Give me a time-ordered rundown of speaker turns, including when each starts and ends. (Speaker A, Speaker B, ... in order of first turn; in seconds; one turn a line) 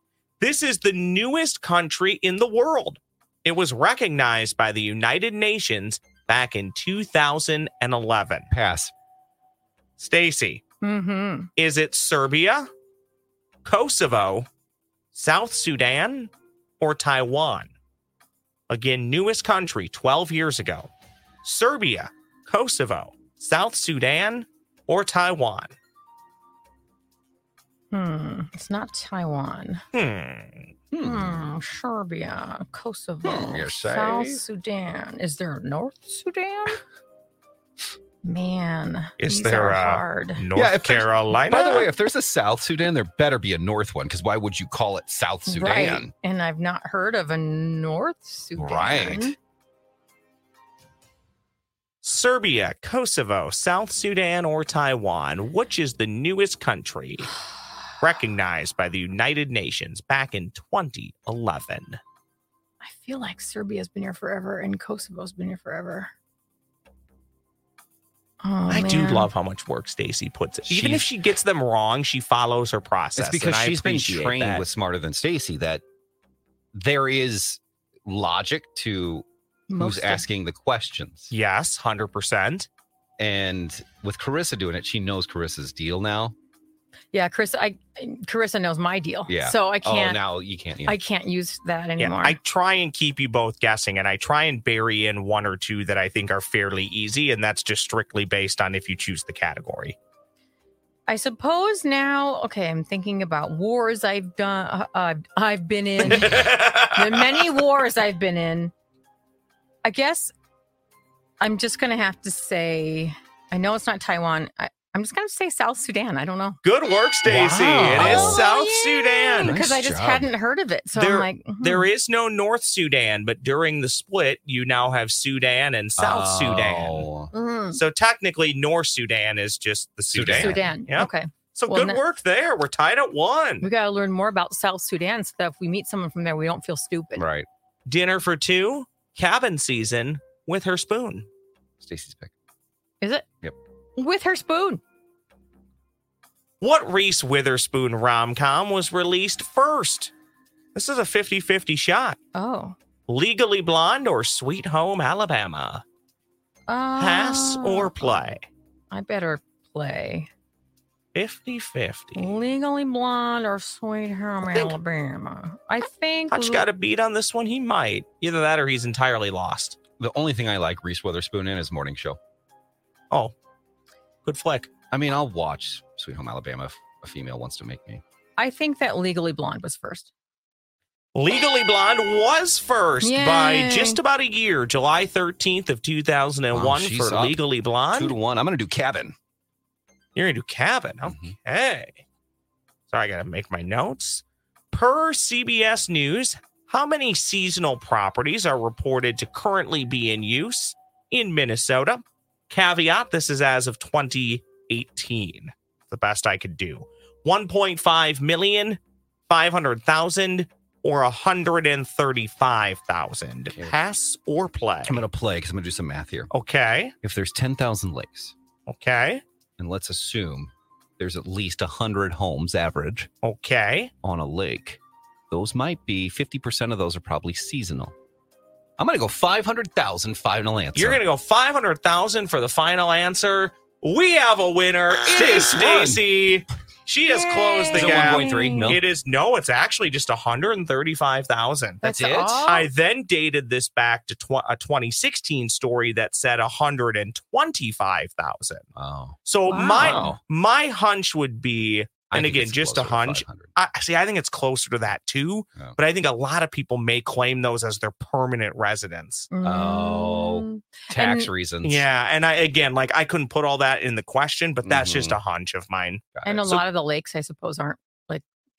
Speaker A: 0.4-8.5
Speaker B: 8.5-8.9
Speaker A: 10.0-10.6
Speaker C: 10.8-11.5
Speaker A: 11.6-12.7
Speaker A: 13.7-14.5
Speaker A: 15.1-16.3
Speaker A: 16.8-17.7
Speaker A: 18.7-20.9
Speaker A: 21.4-25.7
Speaker C: 27.9-29.8
Speaker A: 29.9-30.7
Speaker B: 30.9-31.4
Speaker C: 31.0-36.8
Speaker B: 33.2-34.4
Speaker C: 38.2-40.4
Speaker A: 39.2-41.9
Speaker B: 40.5-46.1
Speaker C: 45.5-49.4
Speaker B: 48.6-49.4
Speaker A: 52.0-57.3
Speaker A: 58.0-62.0
Speaker C: 62.8-66.1
Speaker C: 68.4-69.3
Speaker A: 68.7-74.6
Speaker B: 70.7-71.1
Speaker B: 73.2-75.8
Speaker B: 76.7-79.3
Speaker C: 79.7-80.2
Speaker B: 79.8-81.3
Speaker A: 81.3-82.7
Speaker B: 83.2-86.3
Speaker C: 87.1-90.2
Speaker B: 89.3-91.0
Speaker C: 90.9-92.4
Speaker A: 92.0-100.0
Speaker C: 101.1-108.7
Speaker A: 106.0-107.4
Speaker B: 106.1-106.5
Speaker C: 109.8-110.3
Speaker C: 111.4-116.6
Speaker A: 116.6-119.6
Speaker B: 117.2-118.5
Speaker C: 117.8-121.9
Speaker B: 119.4-120.3
Speaker A: 121.0-127.1
Speaker B: 126.0-127.3
Speaker C: 127.3-127.8
Speaker A: 127.7-133.7
Speaker B: 130.1-130.8
Speaker C: 130.4-132.0
Speaker C: 133.6-137.2
Speaker B: 137.2-137.5
Speaker A: 137.9-141.3
Speaker B: 141.8-142.3
Speaker C: 143.0-143.3
Speaker C: 144.0-144.8
Speaker A: 146.6-150.1
Speaker A: 150.8-152.2
Speaker C: 152.3-152.8
Speaker A: 153.1-155.8
Speaker C: 156.7-158.3
Speaker A: 157.0-158.4
Speaker C: 158.9-160.3
Speaker A: 161.2-162.3
Speaker C: 162.2-166.7
Speaker A: 164.5-164.8
Speaker A: 166.3-169.8
Speaker B: 170.0-172.2
Speaker A: 174.3-174.7
Speaker B: 174.9-178.0
Speaker C: 178.4-180.1
Speaker A: 181.2-188.2
Speaker C: 183.0-184.0
Speaker B: 186.5-187.4
Speaker B: 187.9-189.2
Speaker A: 190.2-191.9
Speaker B: 191.1-191.3
Speaker A: 192.9-215.0
Speaker B: 214.9-216.3
Speaker A: 216.3-216.9
Speaker B: 217.0-218.3
Speaker A: 218.7-219.2
Speaker B: 219.6-223.1
Speaker A: 223.2-223.9
Speaker B: 224.0-224.8
Speaker B: 225.3-227.9
Speaker B: 228.8-231.0
Speaker A: 230.8-241.8
Speaker B: 235.1-236.0
Speaker C: 237.1-238.7
Speaker B: 237.7-238.8
Speaker B: 241.8-242.5
Speaker C: 241.8-242.7
Speaker A: 242.5-248.6
Speaker B: 248.8-250.2
Speaker A: 249.2-259.3
Speaker C: 249.5-250.1
Speaker B: 252.1-253.5
Speaker C: 259.3-261.3
Speaker B: 259.4-261.9
Speaker A: 261.6-266.6
Speaker B: 264.6-265.2
Speaker B: 266.1-266.4
Speaker C: 266.3-268.2